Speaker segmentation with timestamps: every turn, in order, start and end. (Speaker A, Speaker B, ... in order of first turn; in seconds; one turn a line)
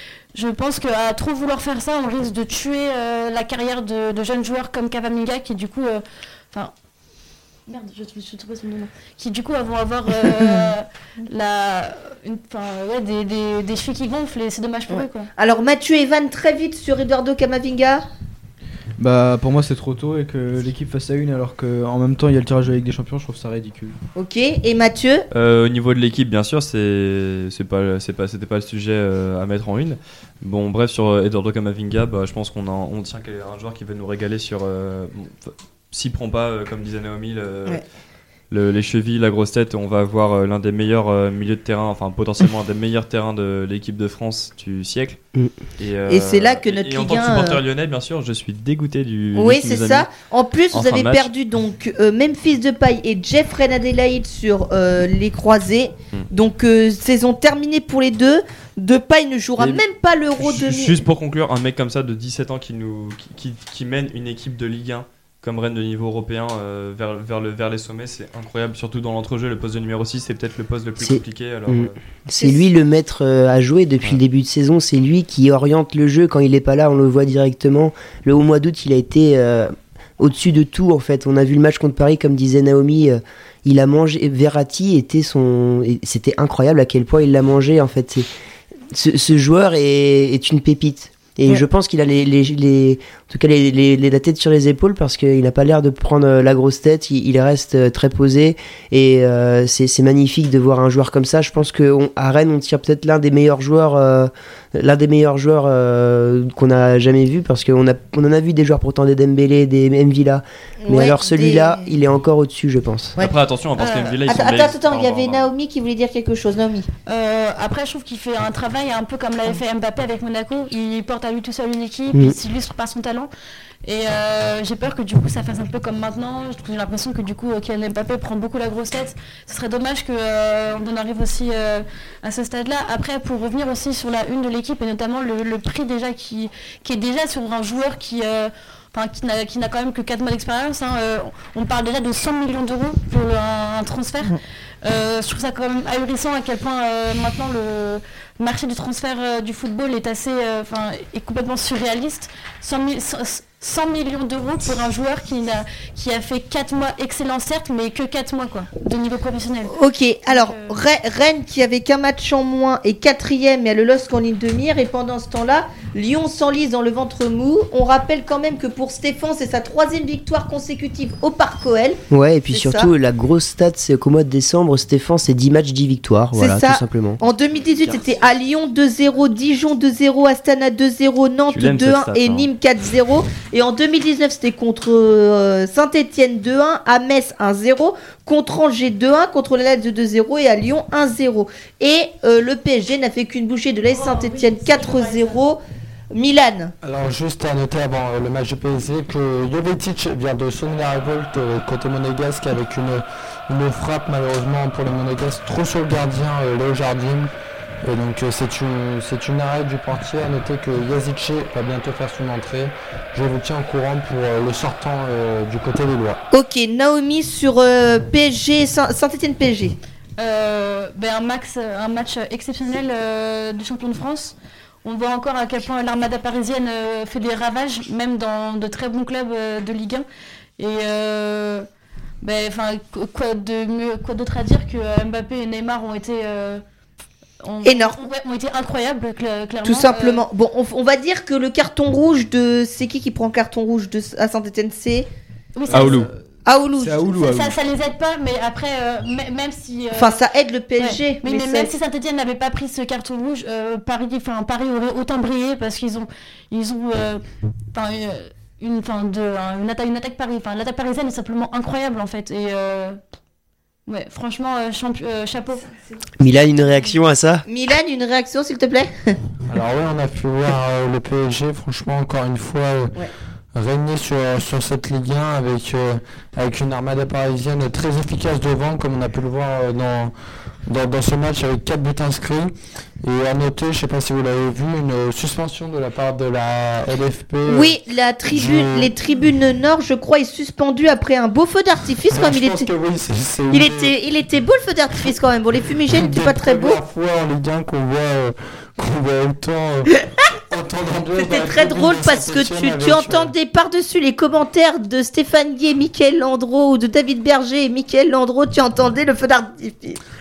Speaker A: 0.3-6.7
Speaker A: 7.7-15.3
Speaker B: 14.9-18.0
Speaker C: 19.0-23.9
Speaker B: 24.2-25.2
Speaker D: 25.3-37.8
Speaker D: 38.5-45.2
Speaker D: 45.8-50.1
Speaker B: 46.1-47.6
Speaker B: 49.4-61.0
Speaker D: 50.7-51.3
Speaker D: 59.6-59.8
Speaker D: 60.4-72.0
Speaker E: 71.0-88.3
Speaker B: 72.3-72.7
Speaker E: 88.9-113.2
Speaker B: 110.8-111.9
Speaker D: 113.2-115.5
Speaker A: 113.8-114.2
Speaker B: 114.3-116.9
Speaker A: 117.1-123.3
Speaker A: 123.8-159.7
Speaker B: 159.7-172.0
Speaker A: 160.3-160.8
Speaker E: 172.1-177.2
Speaker B: 172.5-172.9
Speaker B: 176.4-195.6
Speaker D: 181.5-182.5
Speaker A: 193.9-195.4
Speaker B: 196.1-196.7
Speaker F: 196.8-207.3
Speaker F: 207.8-216.2
Speaker B: 216.3-219.8
Speaker A: 220.2-230.1
Speaker A: 230.6-231.7
Speaker A: 232.2-236.6
Speaker A: 237.4-240.2
Speaker B: 237.6-238.0
Speaker B: 239.6-245.1
Speaker A: 245.6-246.0
Speaker C: 245.7-246.2
Speaker D: 245.7-246.1
Speaker B: 246.4-247.1
Speaker C: 246.8-247.6
Speaker A: 247.2-250.2
Speaker B: 249.9-251.7
Speaker A: 250.8-263.0
Speaker A: 263.9-265.6
Speaker E: 266.2-267.4
Speaker B: 267.4-269.1
Speaker F: 269.5-272.9
Speaker F: 273.6-280.1
Speaker F: 280.7-288.9
Speaker B: 287.5-292.7
Speaker F: 292.1-293.9
Speaker B: 293.5-296.8
Speaker F: 295.9-299.9
Speaker F: 300.5-303.3
Speaker B: 301.2-310.0